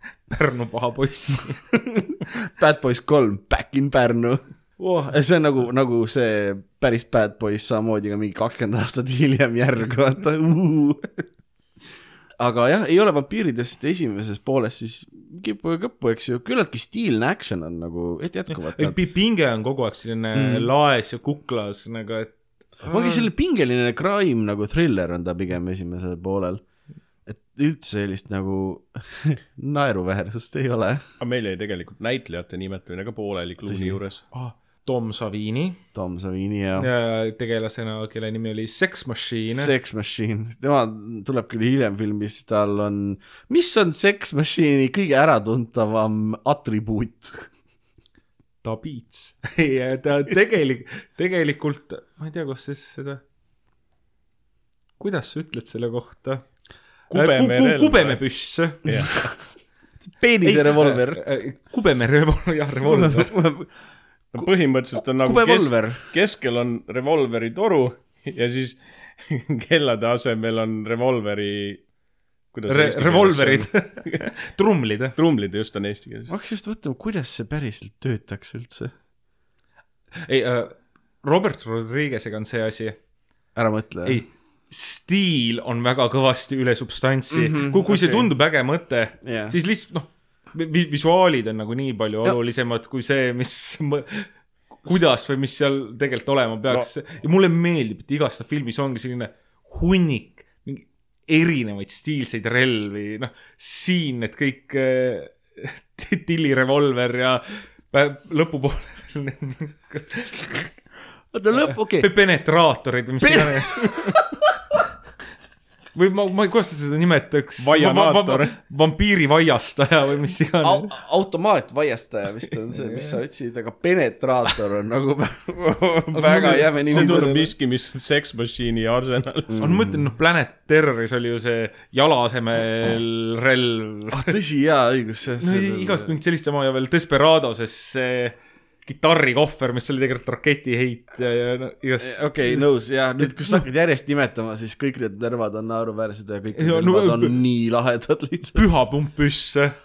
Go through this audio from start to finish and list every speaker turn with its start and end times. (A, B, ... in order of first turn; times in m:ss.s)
0:00.3-0:01.6 A
0:01.7-0:11.2 B
0:12.4-0:19.0 B
0:18.5-0:23.2 A
0:20.3-0:20.7 B
0:22.9-0:26.6 B
0:27.2-0:31.0 B
0:31.2-0:34.2 C
0:33.6-0:34.0 B
0:34.3-0:35.8 A
0:35.9-0:36.9 B
0:36.8-0:39.7 A
0:39.5-0:47.5 B
0:48.6-0:53.2 A
0:55.0-0:56.4 A
0:57.1-0:58.2 C
0:57.1-0:58.8 A
0:58.8-0:59.1 C
1:00.1-1:01.2 B
1:00.4-1:03.3 A
1:02.8-1:03.7 B
1:04.3-1:06.0 B
1:04.4-1:11.8 C
1:12.5-1:13.9 C
1:12.7-1:15.1 A
1:15.2-1:16.3 C
1:16.3-1:18.9 B
1:20.2-1:23.0 A
1:23.5-1:24.2 B
1:24.0-1:34.3 A
1:27.3-1:28.3 B
1:29.2-1:29.6 B
1:34.8-1:50.7 A
1:51.3-1:52.1 B
1:51.7-1:53.8 A
1:53.2-1:54.2 B
1:55.9-2:00.9 A
1:57.6-1:58.5 C
2:00.6-2:07.5 B
2:02.7-2:03.2 A
2:06.1-2:07.3 A
2:06.3-2:09.6 C
2:09.5-2:10.0 B
2:09.6-2:14.3 A
2:14.1-2:16.1 B
2:15.4-2:22.6 A
2:22.0-2:28.7 B
2:23.2-2:23.6 A
2:26.6-2:27.4 A
2:28.5-2:29.7 A